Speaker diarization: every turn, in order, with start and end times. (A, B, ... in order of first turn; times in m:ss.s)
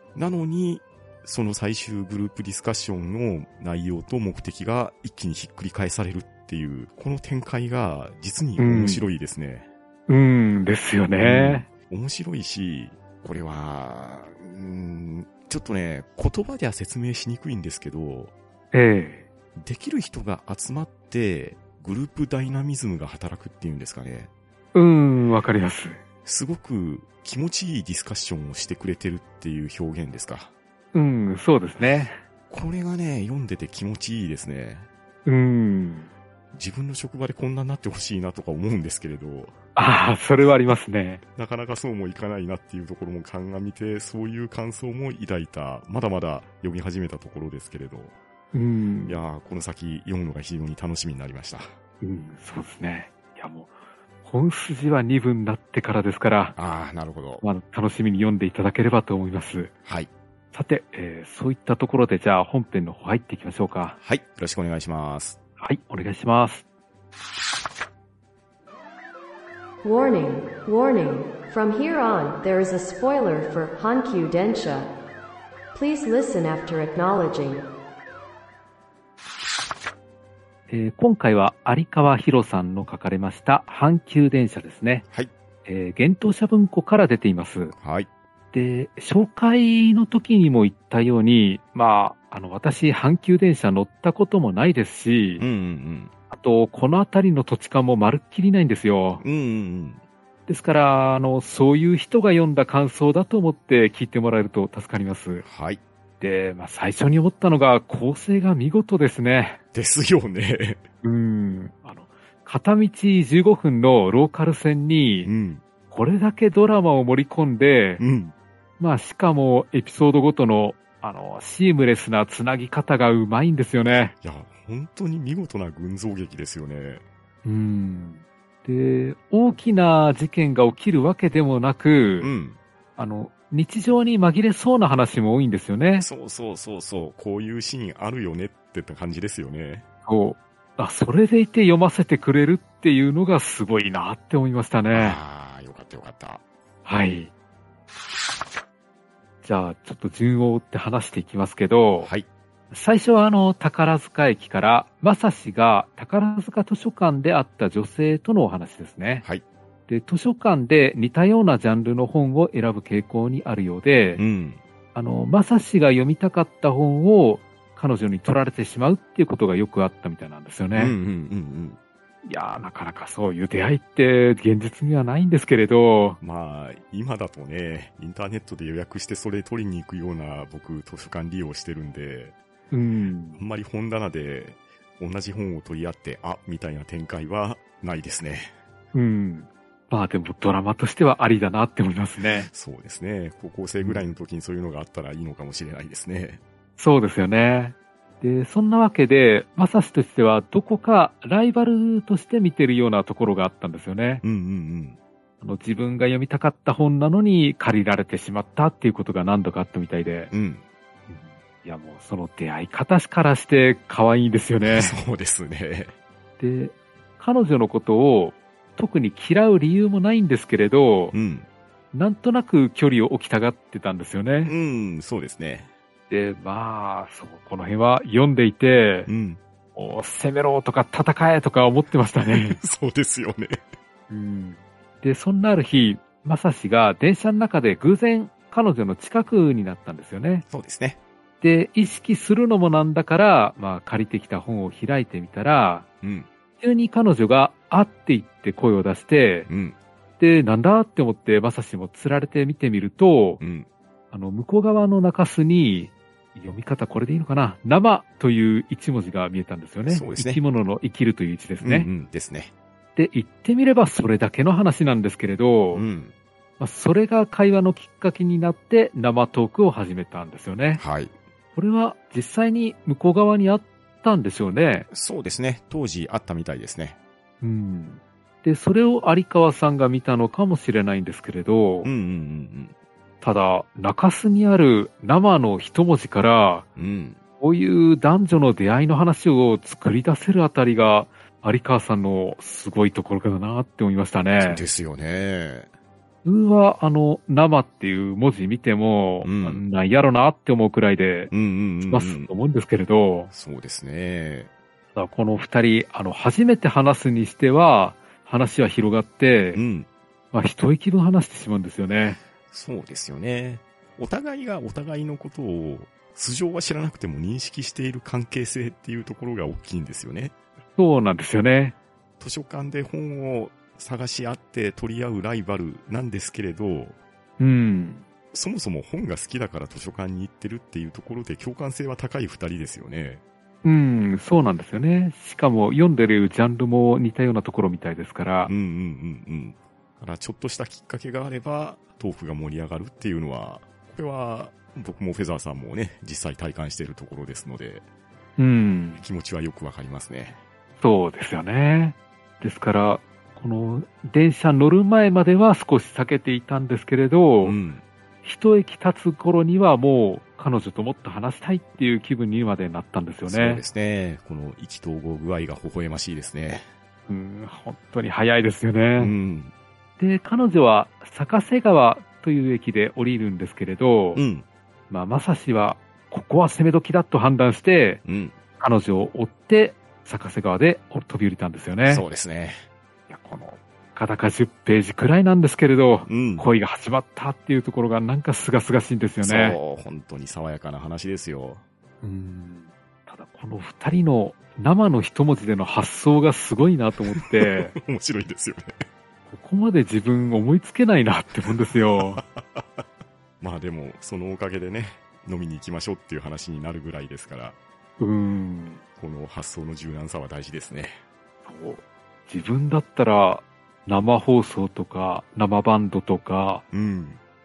0:00.1-0:09.7 A
0:08.6-0:09.1 B
0:10.1-0:11.7 B
0:11.2-0:18.3 A
0:18.7-0:19.2 B
0:19.6-0:24.3 A
0:24.7-0:26.0 B
0:26.2-0:30.5 A
0:30.9-0:32.2 B
0:32.5-0:34.9 A
0:35.2-0:36.1 B
0:36.5-0:39.5 A
0:39.8-0:41.2 B
0:41.4-0:48.1 A
0:48.5-0:49.2 B
0:49.1-0:51.7 A
0:52.0-0:53.7 B
0:54.2-0:56.5 B
0:56.6-0:57.4 A
0:57.4-0:59.7 B
1:00.5-1:04.0 B
1:04.0-1:05.4 A
1:05.6-1:06.6 B
1:09.8-1:14.9 C
1:15.7-1:17.6 C
1:20.7-1:25.0 B
1:25.6-1:27.7 B
1:27.7-1:28.1 A
1:28.5-1:35.4 B
1:35.4-1:36.1 A
1:36.3-1:39.2 B
1:39.2-1:40.0 A
1:40.5-1:45.4 B
1:45.4-1:45.8 A
1:46.2-1:49.6 B
1:49.7-1:50.8 A
1:51.0-1:55.3 B
1:55.2-1:55.6 A
1:55.9-1:58.0 B
1:58.0-1:58.3 A
1:58.8-2:04.1 B
2:04.2-2:07.0 A
2:07.4-2:12.3 B
2:12.2-2:12.6 A
2:13.0-2:16.1 B
2:16.0-2:19.8 A
2:20.0-2:25.2 B
2:24.9-2:26.4 A
2:26.8-2:27.3 B
2:29.4-2:32.1 B
2:32.7-2:39.2 B
2:39.9-2:44.2 B
2:44.2-2:44.6 A
2:44.9-2:51.0 B
2:50.7-2:51.8 A
2:52.2-2:56.2 B
2:56.2-3:02.3 A
3:02.7-3:03.4 B
3:03.4-3:08.5 A
3:08.9-3:12.5 B
3:12.4-3:16.4 A
3:13.8-3:14.1 B
3:16.8-3:24.2 B
3:24.2-3:25.0 A
3:25.4-3:30.3 B
3:30.3-3:30.6 A
3:31.1-3:35.0 B
3:34.6-3:35.9 A
3:36.4-3:41.1 B
3:41.1-3:41.5 A
3:41.9-3:44.5 B
3:44.4-3:45.7 A
3:46.1-3:49.1 B
3:49.1-3:49.4 A
3:49.7-3:52.6 B
3:52.2-3:53.6 A
3:54.1-4:00.4 B
4:00.5-4:01.0 A
4:01.4-4:05.8 B
4:06.0-4:06.3 A
4:06.6-4:09.5 B
4:09.5-4:09.8 A
4:10.2-4:13.4 B
4:13.4-4:13.7 A
4:14.1-4:21.9 B
4:19.8-4:20.4 A
4:21.6-4:22.5 A
4:23.0-4:25.8 B
4:25.7-4:26.1 A
4:26.6-4:30.8 B
4:30.8-4:31.1 A
4:31.5-4:34.9 B
4:34.9-4:37.0 A
4:37.4-4:41.9 B
4:41.8-4:42.7 A
4:43.2-4:46.6 B
4:46.8-4:47.2 A
4:47.4-4:54.6 B
4:54.4-4:55.7 A
4:56.2-5:01.3 B
4:59.2-4:59.6 A
5:01.3-5:02.3 A
5:01.9-5:03.3 B
5:03.3-5:04.5 A
5:05.0-5:09.6 B
5:09.5-5:09.9 A
5:10.3-5:12.2 B
5:12.5-5:20.3 A
5:20.8-5:21.7 B
5:22.2-5:27.0 A
5:27.4-5:28.0 B
5:28.3-5:33.2 A
5:33.6-5:38.5 B
5:38.4-5:47.8 A
5:48.4-5:49.0 B
5:49.0-5:50.4 A
5:50.8-5:57.6 B
5:57.4-5:57.8 A
5:58.2-6:03.6 B
6:03.2-6:06.7 A
6:07.1-6:09.1 B
6:09.0-6:09.5 A
6:10.0-6:14.2 B
6:14.1-6:14.4 A
6:14.9-6:18.0 B
6:18.0-6:18.3 A
6:18.6-6:22.0 B
6:21.8-6:22.6 A
6:23.1-6:29.6 B
6:26.1-6:26.4 A
6:29.2-6:31.6 A
6:32.0-6:37.8 B
6:37.1-6:38.8 A
6:39.3-6:42.2 B
6:42.0-6:42.8 A
6:43.4-6:47.6 A
6:48.0-6:48.8 B
6:49.0-6:51.0 A
6:51.4-6:56.6 B
6:56.7-6:57.2 A